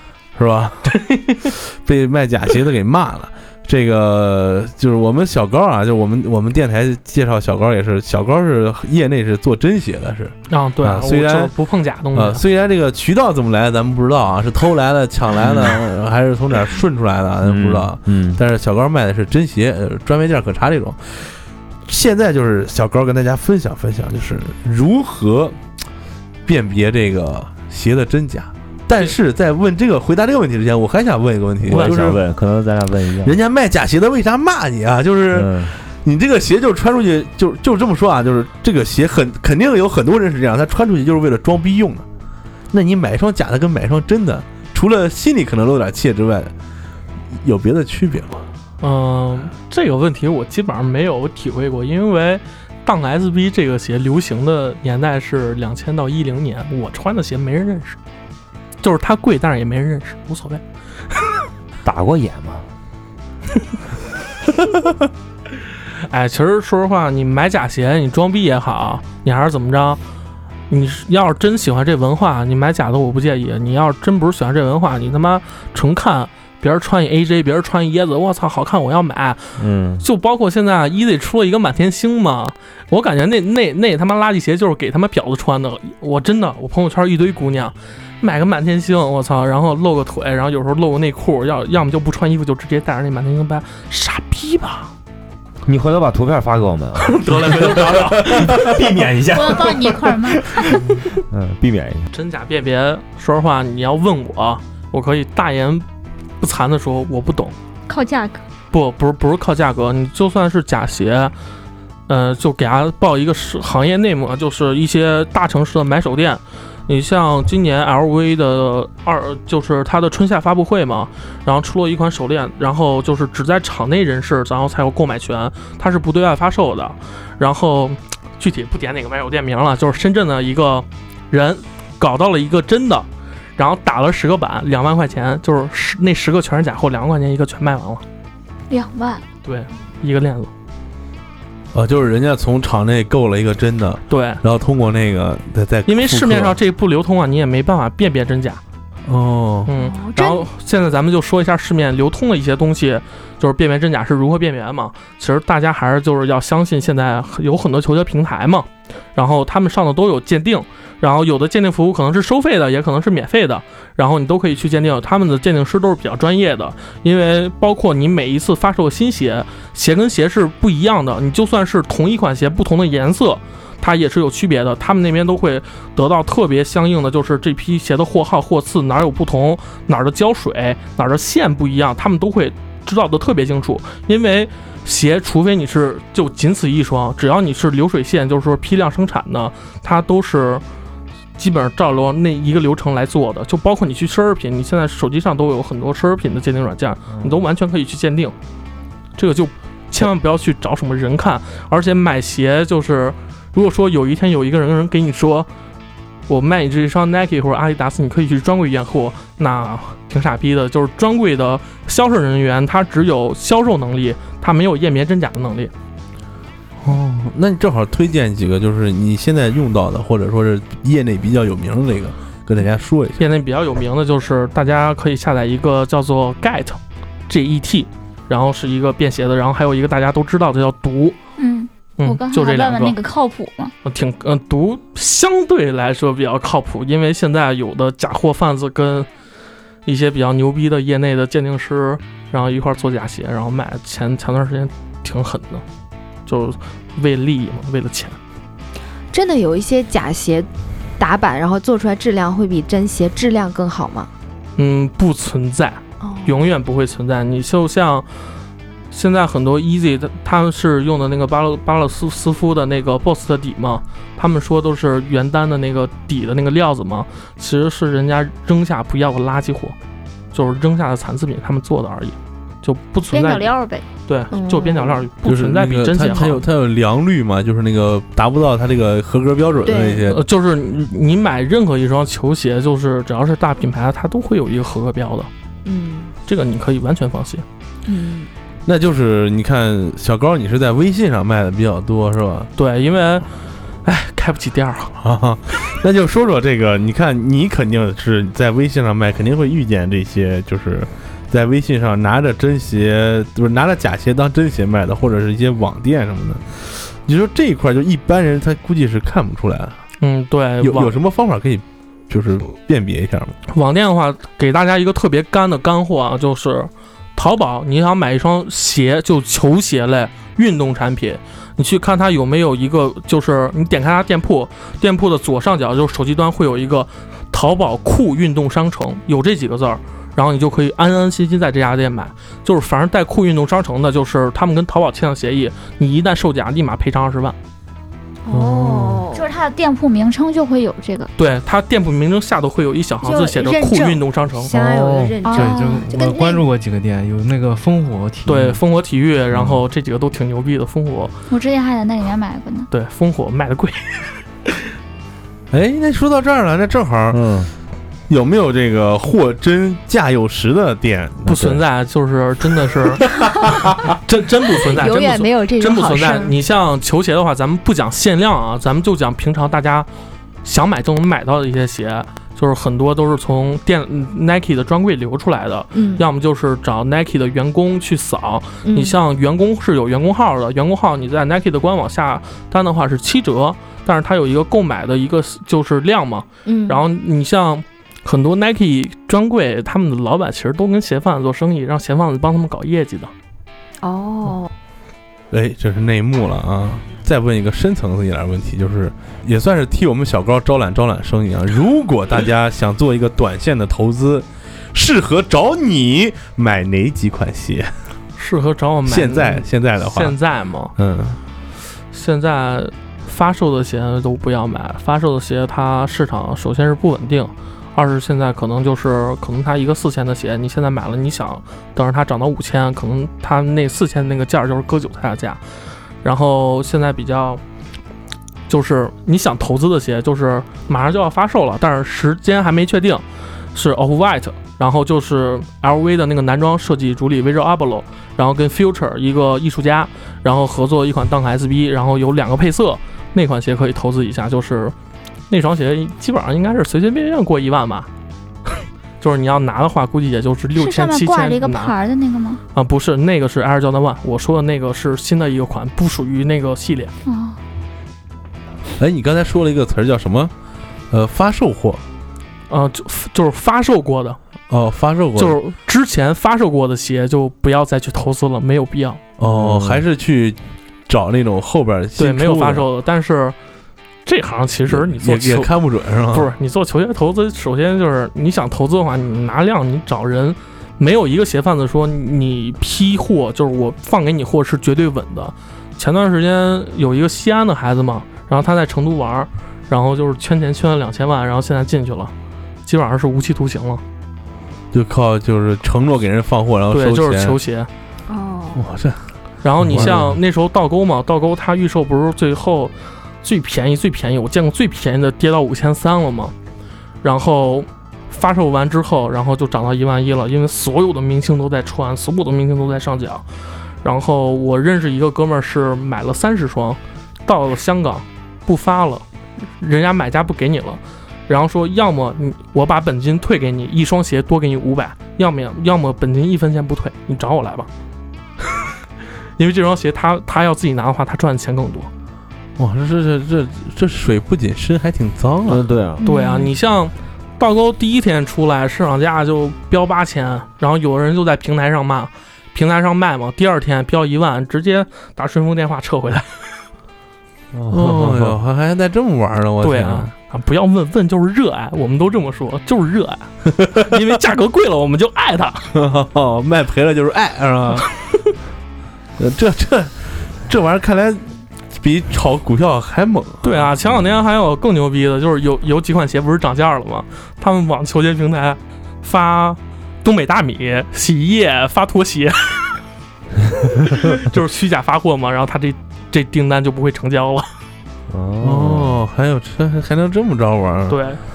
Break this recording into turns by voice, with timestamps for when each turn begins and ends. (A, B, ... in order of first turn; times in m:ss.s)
0:00.4-0:11.5 A
0:10.5-0:12.4 B
0:12.1-0:25.6 A
0:15.4-0:15.8 C
0:17.4-0:18.4 C
0:26.4-0:32.2 A
0:31.7-0:33.4 C
0:33.2-0:42.1 A
0:35.3-0:35.7 C
0:42.7-0:46.5 A
0:47.4-0:48.4 A
0:48.8-0:58.0 B
0:58.8-1:00.6 B
1:01.8-1:02.7 C
1:06.0-1:10.0 B
1:10.7-1:34.9 B
1:19.6-1:20.0 C
1:35.7-1:39.8 C
1:37.1-1:38.8 B
1:39.3-1:40.8 D
1:40.7-1:42.1 C
1:42.1-1:45.9 B
1:46.4-1:47.6 B
1:47.9-1:48.4 D
1:48.7-1:51.3 B
1:52.1-2:18.0 B
2:18.7-2:19.2 D
2:19.4-2:20.5 B
2:21.7-2:26.6 A
2:24.1-2:24.4 B
2:25.9-2:28.6 B
2:29.1-2:29.7 A
2:29.7-3:10.6 B
2:29.8-2:30.4 E
3:11.4-3:18.4 B
3:17.1-3:17.4 C
3:19.2-3:25.5 B
3:26.3-3:35.7 B
3:36.8-3:43.2 A
3:43.2-3:51.2 B
3:51.4-3:53.7 D
3:52.0-3:53.0 B
3:53.8-3:59.1 B
3:59.9-4:05.6 B
4:06.3-4:08.2 B
4:09.1-4:10.5 E
4:11.0-4:14.1 E
4:14.6-4:18.1 B
4:16.0-4:16.4 E
4:18.9-4:29.8 B
4:30.3-4:33.5 B
4:33.1-4:33.8 D
4:34.1-4:36.5 B
4:34.3-4:35.1 E
4:35.2-4:40.2 A
4:39.6-4:40.1 E
4:40.1-4:45.3 B
4:45.6-4:46.1 E
4:46.3-4:47.4 B
4:47.9-4:48.3 E
4:48.7-4:52.5 A
4:52.6-4:53.3 B
4:53.8-4:55.0 B
4:55.0-5:09.8 A
5:10.0-5:11.0 B
5:10.6-5:13.4 A
5:13.5-5:37.4 B
5:38.3-5:39.2 E
5:39.1-5:41.1 D
5:41.2-5:44.5 B
5:43.0-5:46.4 E
5:44.6-5:45.1 C
5:45.2-5:45.9 D
5:45.3-5:48.6 F
5:48.3-5:51.1 B
5:51.3-5:52.7 D
5:52.7-5:54.2 B
5:55.5-5:57.2 A
5:57.1-5:57.5 C
5:58.1-6:01.4 A
6:01.3-6:01.6 C
6:01.3-6:03.2 B
6:03.4-6:03.9 A
6:03.9-6:09.9 B
6:04.7-6:06.3 E
6:10.4-6:33.1 B
6:15.7-6:16.1 E
6:18.6-6:19.0 E
6:26.4-6:26.8 E
6:33.8-6:34.5 E
6:35.3-6:47.7 A
6:48.2-6:50.8 B
6:48.9-6:50.1 A
6:50.8-6:51.2 A
6:51.9-7:05.4 B
7:06.0-7:07.4 B
7:08.5-7:24.8 B
7:25.3-7:27.9 B
7:29.0-7:31.7 B
7:30.6-7:32.4 D
7:32.5-7:36.9 B
7:37.1-7:37.4 D
7:38.8-7:40.3 A
7:40.9-7:41.8 A
7:42.5-7:44.2 B
7:44.5-7:45.4 A
7:45.2-7:49.0 B
7:49.2-7:52.6 A
7:49.2-7:49.8 C
7:52.0-7:53.4 B
7:54.0-7:55.5 B
7:54.7-7:56.3 A
7:56.1-8:12.1 B
8:12.6-8:13.8 B
8:14.7-8:17.4 A
8:16.7-8:17.7 B
8:18.1-8:18.6 E
8:18.6-8:19.0 A
8:19.4-8:26.3 B
8:19.6-8:20.1 A
8:19.8-8:20.1 C
8:27.0-8:33.3 B
8:33.8-8:47.7 B
8:49.4-8:51.9 B
8:52.6-8:55.7 A
8:55.5-8:56.0 C
8:56.0-8:56.5 E
8:56.0-9:06.6 B
9:07.5-9:08.4 C
9:07.7-9:10.1 A
9:09.6-9:15.7 B
9:13.6-9:13.9 A
9:15.7-9:17.9 A
9:19.2-9:23.5 A
9:23.4-9:32.8 B
9:33.9-9:37.5 B
9:38.1-9:39.0 C
9:38.4-9:41.0 A
9:40.9-9:41.2 B